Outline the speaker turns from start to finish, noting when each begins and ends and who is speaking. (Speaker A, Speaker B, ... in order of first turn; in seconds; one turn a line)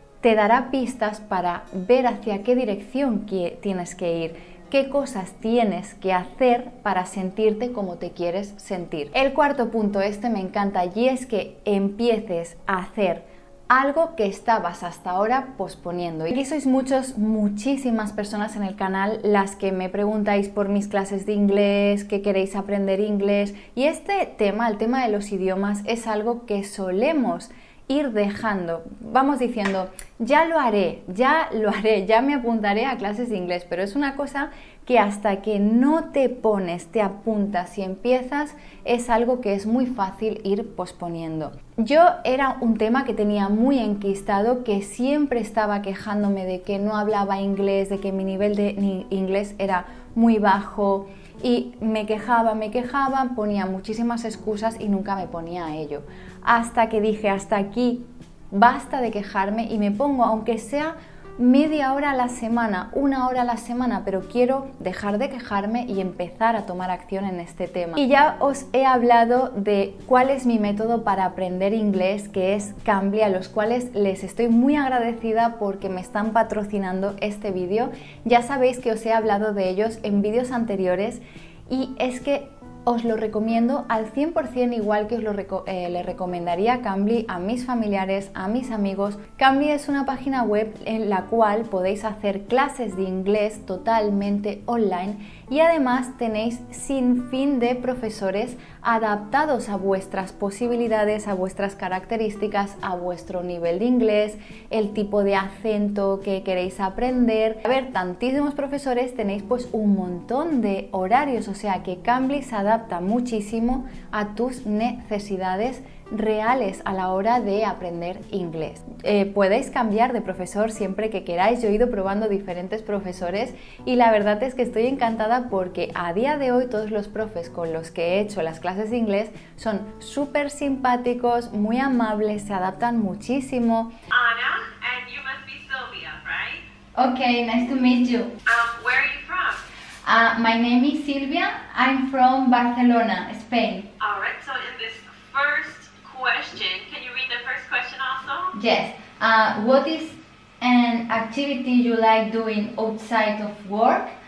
Speaker A: 0.2-133.9
Speaker B: 134.1-136.7
Speaker A: 136.9-138.4
Speaker B: 138.4-139.6
Speaker A: 140.0-143.9
Speaker B: 144.0-148.5
Speaker A: 148.5-154.1